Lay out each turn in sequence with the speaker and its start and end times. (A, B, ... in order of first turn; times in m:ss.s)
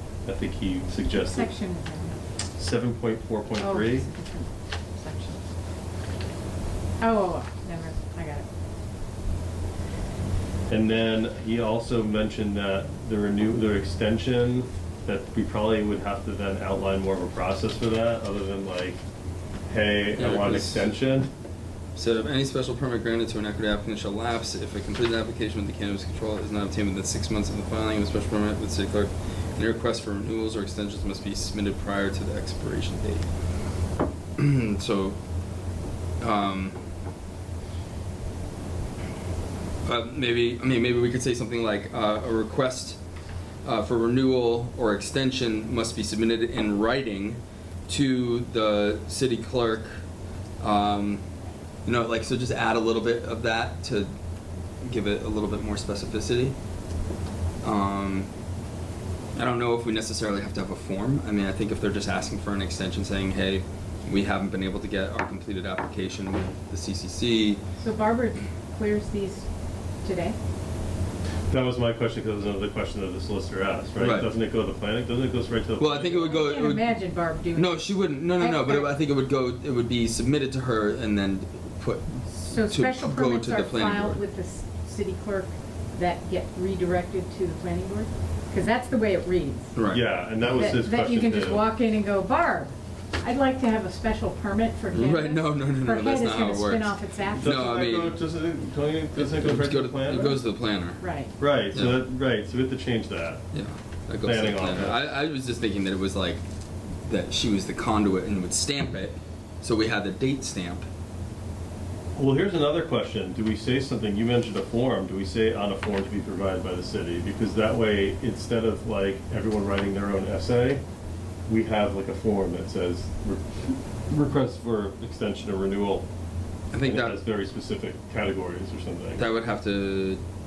0:00.2-0:01.5 A
0:01.1-0:02.2 B
0:02.6-0:04.1 A
0:03.6-0:05.4 B
0:07.0-0:08.5 B
0:10.7-0:19.0 A
0:19.7-0:21.3 A
0:20.1-0:20.9 C
0:22.0-0:33.3 C
0:34.4-0:35.2 C
0:36.2-0:36.8 C
0:39.8-0:43.0 C
0:43.6-0:50.0 C
0:50.6-0:51.2 C
0:51.8-0:54.1 C
0:54.8-0:56.6 C
0:57.6-0:58.3 C
0:59.4-1:07.6 C
1:07.8-1:09.4 B
1:10.0-1:10.4 B
1:11.5-1:16.3 A
1:14.0-1:14.3 C
1:15.8-1:17.0 C
1:16.1-1:18.9 B
1:17.5-1:24.2 C
1:22.3-1:29.7 B
1:29.8-1:30.0 C
1:29.9-1:31.6 A
1:30.4-1:37.6 B
1:34.9-1:38.2 C
1:37.3-1:40.4 A
1:39.2-1:41.0 C
1:41.0-1:41.3 B
1:41.4-1:43.4 A
1:41.7-1:42.0 C
1:43.5-1:46.4 C
1:44.2-1:45.0 A
1:47.0-1:50.9 C
1:52.2-2:00.8 A
2:01.5-2:06.1 A
2:06.7-2:07.2 C
2:06.8-2:09.2 A
2:09.2-2:10.2 C